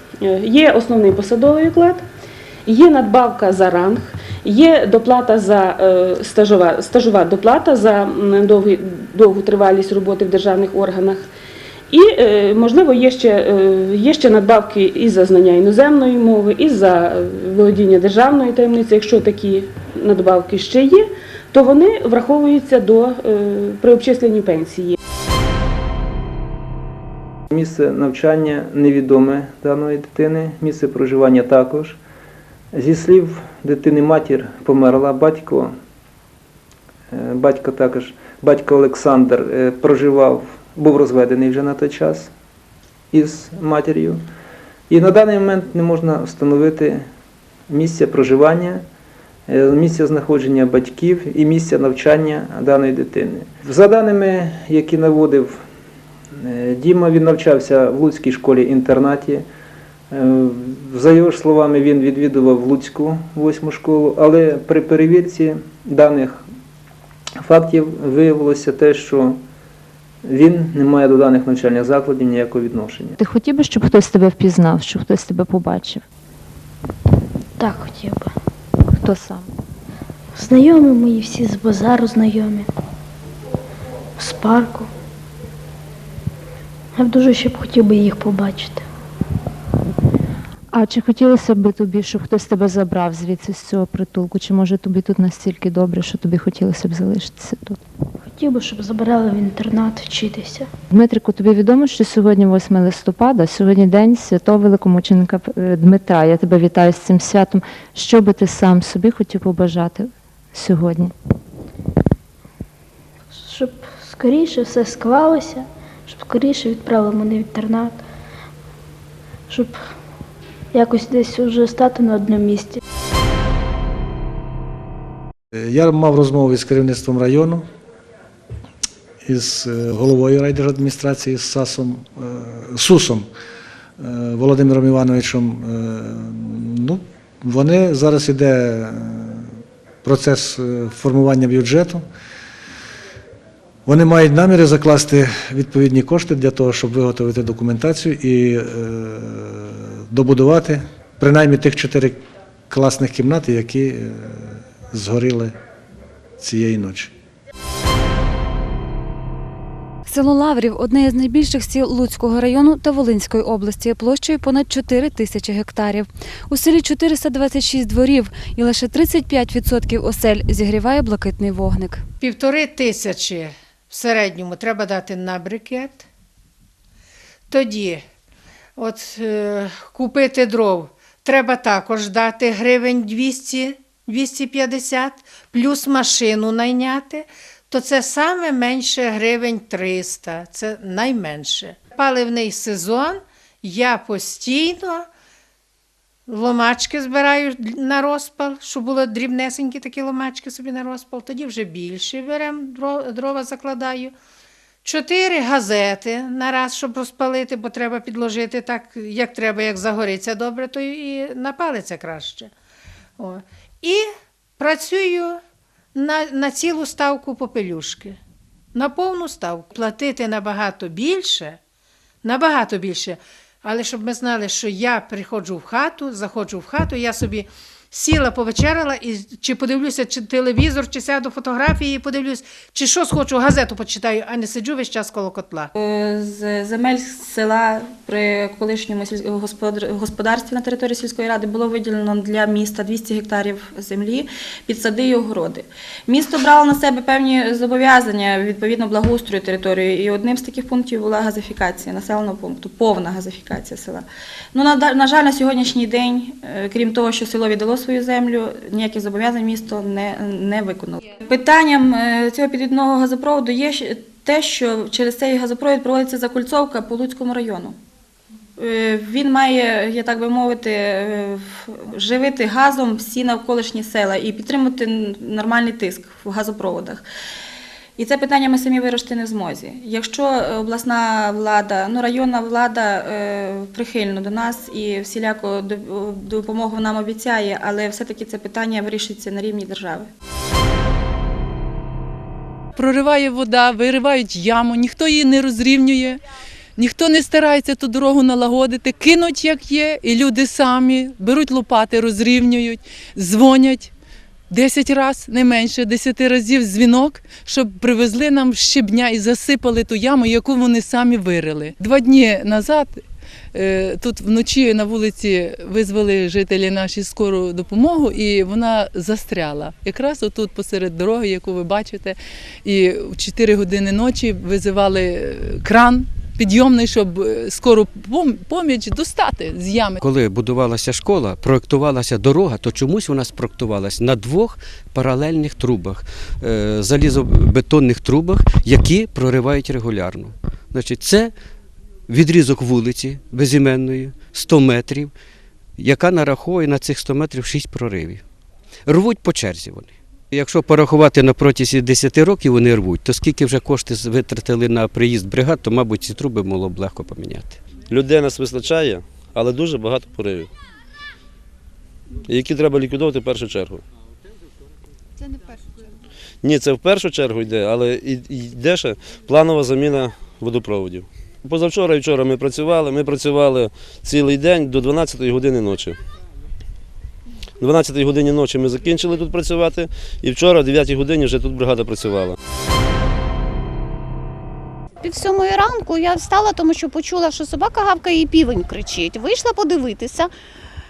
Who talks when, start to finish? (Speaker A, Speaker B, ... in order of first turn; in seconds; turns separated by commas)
Speaker A: 0.2-2.0, Speaker A: 2.6-11.3, Speaker A: 11.9-25.0, Speaker B: 27.5-32.0, Speaker B: 32.7-35.8, Speaker B: 37.1-42.3, Speaker B: 43.1-44.2, Speaker B: 44.9-47.1, Speaker B: 47.7-48.8, Speaker B: 49.5-55.6, Speaker B: 56.4-59.5, Speaker B: 60.1-66.5, Speaker B: 67.4-69.4, Speaker B: 70.3-73.2, Speaker C: 73.2-76.0, Speaker D: 77.6-78.3, Speaker C: 79.0-79.5, Speaker D: 80.3-82.7, Speaker D: 84.2-84.9, Speaker D: 87.0-88.8, Speaker C: 90.7-97.8, Speaker D: 98.3-100.7, Speaker C: 100.9-111.1, Speaker D: 113.3-118.0, Speaker D: 119.5-119.9, Speaker D: 120.7-122.8, Speaker E: 125.5-127.7, Speaker E: 129.2-133.3, Speaker E: 134.0-142.1, Speaker E: 143.8-155.6, Speaker E: 156.4-157.1, Speaker F: 160.1-172.0, Speaker G: 172.2-176.1, Speaker G: 177.5-178.0, Speaker G: 178.8-195.1, Speaker G: 196.3-204.1, Speaker G: 204.8-212.5, Speaker G: 213.2-215.4, Speaker G: 215.9-218.2, Speaker G: 218.7-221.6, Speaker G: 222.2-235.7, Speaker H: 235.8-267.8, Speaker H: 268.6-277.0, Speaker H: 278.0-290.1, Speaker I: 292.8-296.2, Speaker I: 296.8-303.9, Speaker I: 304.5-330.0, Speaker J: 330.0-341.4, Speaker J: 342.1-345.1, Speaker J: 345.8-348.2, Speaker J: 348.9-357.6, Speaker K: 357.9-360.5, Speaker K: 362.2-363.8, Speaker K: 366.4-376.0, Speaker K: 377.6-382.4, Speaker L: 385.0-390.3